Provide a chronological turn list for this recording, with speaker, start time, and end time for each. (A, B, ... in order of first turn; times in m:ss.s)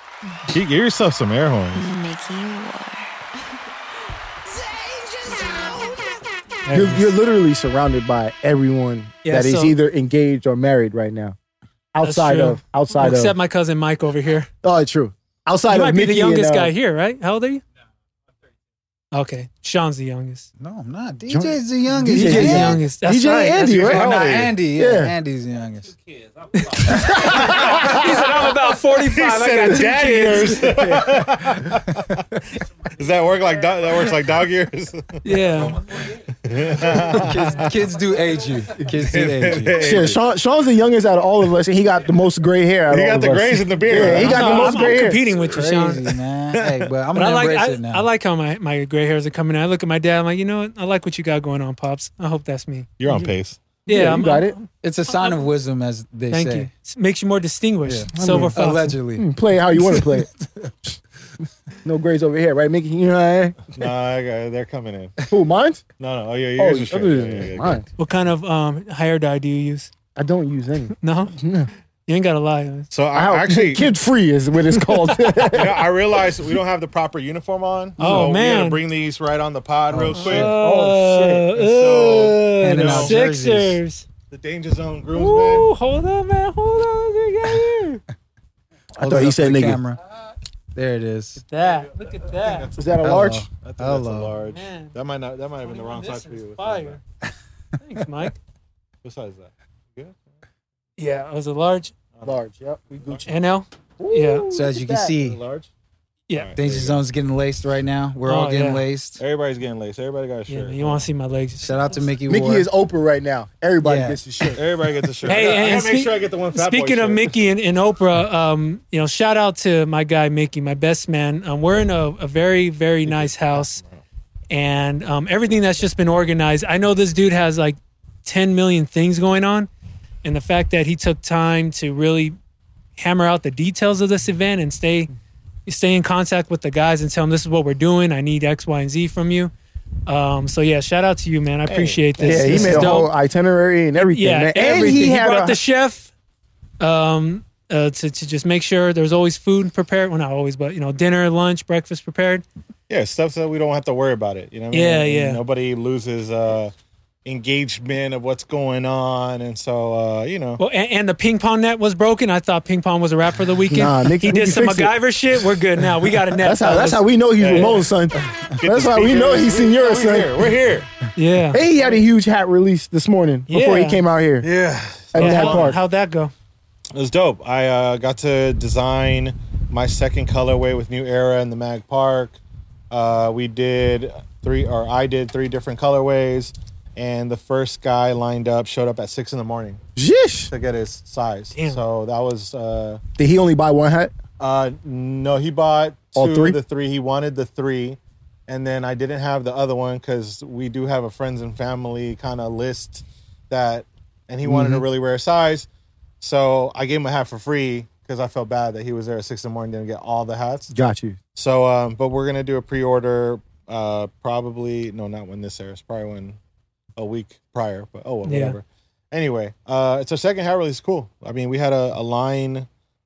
0:00.5-0:02.0 A
0:01.8-0:03.1 B
0:05.2-0:06.0 B
0:06.6-0:07.1 C
0:06.7-0:11.4 D
0:09.2-0:09.8 C
0:11.9-0:13.4 D
0:12.0-0:14.5 C
0:14.6-0:16.7 D
0:15.7-0:17.6 C
0:19.1-0:20.5 C
0:20.6-0:22.8 E
0:21.3-0:24.2 D
0:22.1-0:23.6 C
0:23.6-0:24.5 A
0:23.6-0:25.9 E
0:24.7-0:25.1 D
0:26.6-0:30.7 C
0:26.9-0:28.0 D
0:29.0-0:32.3 A
0:30.6-0:31.2 D
0:33.0-0:35.8 A
0:35.2-0:35.8 C
0:36.4-0:37.7 A
0:37.0-0:39.8 E
0:39.0-0:40.2 A
0:39.7-0:45.2 D
0:42.9-0:45.1 A
0:43.9-0:48.1 E
0:44.0-0:46.0 C
0:47.1-0:53.3 C
0:53.0-0:53.6 A
0:53.9-0:54.6 D
0:53.9-0:55.4 C
0:54.8-0:56.7 E
0:56.3-0:59.0 C
0:57.8-0:59.3 E
0:58.1-0:58.6 D
0:59.1-1:00.3 D
0:59.8-1:00.1 E
1:01.8-1:03.6 D
1:03.8-1:05.2 A
1:05.3-1:05.8 D
1:06.0-1:07.8 A
1:06.6-1:07.9 D
1:08.0-1:09.9 C
1:10.2-1:11.7 D
1:11.0-1:11.4 C
1:12.1-1:12.9 C
1:12.9-1:13.9 A
1:13.1-1:15.9 D
1:14.7-1:15.1 C
1:15.5-1:20.5 A
1:18.0-1:18.8 C
1:19.9-1:20.5 E
1:20.2-1:24.1 C
1:20.4-1:21.5 D
1:21.6-1:23.2 A
1:22.6-1:23.8 E
1:24.3-1:25.7 A
1:25.1-1:28.0 C
1:29.0-1:29.8 D
1:29.0-1:30.0 E
1:30.7-1:31.4 E
1:31.4-1:32.7 C
1:32.0-1:32.9 A
1:32.7-1:33.5 D
1:33.0-1:34.3 E
1:33.6-1:37.0 A
1:34.4-1:34.9 C
1:35.6-1:37.0 C
1:37.8-1:38.4 C
1:39.0-1:40.1 A
1:41.0-1:41.9 C
1:42.2-1:43.3 D
1:43.3-1:44.5 C
1:44.0-1:45.4 D
1:44.5-1:45.4 E
1:45.4-1:45.7 A
1:46.4-1:47.0 A
1:46.6-1:49.2 E
1:48.2-1:48.8 C
1:49.2-1:51.1 A
1:50.5-1:52.0 C
1:51.6-1:52.7 E
1:52.3-1:54.7 D
1:53.8-1:54.2 E
1:54.5-1:57.3 A
1:55.3-2:03.8 C
2:03.1-2:04.0 A
2:04.5-2:09.7 C
2:10.2-2:12.4 C
2:13.0-2:15.1 C
2:15.7-2:19.5 C
2:20.1-2:23.1 C
2:21.7-2:23.0 A
2:22.2-2:25.6 D
2:24.0-2:26.1 C
2:26.8-2:32.4 C
2:32.9-2:36.7 A
2:34.7-2:35.4 C
2:37.2-2:40.6 A
2:40.6-2:47.8 C
2:43.7-2:45.0 D
2:46.4-2:50.4 D
2:47.4-2:50.9 A
2:51.2-2:51.6 C
2:51.5-2:54.5 D
2:53.5-2:54.0 C
2:54.4-2:55.8 A
2:55.1-2:55.8 D
2:55.2-2:56.3 C
2:57.0-3:02.4 A
3:02.9-3:09.8 A
3:10.0-3:10.5 D
3:10.5-3:13.0 A
3:11.6-3:11.8 C
3:13.2-3:14.1 D
3:14.4-3:25.7 A
3:16.2-3:16.6 D
3:24.4-3:24.8 D
3:26.2-3:30.7 A
3:30.7-3:31.2 D
3:31.4-3:36.4 A
3:37.0-3:42.7 A
3:38.3-3:38.6 C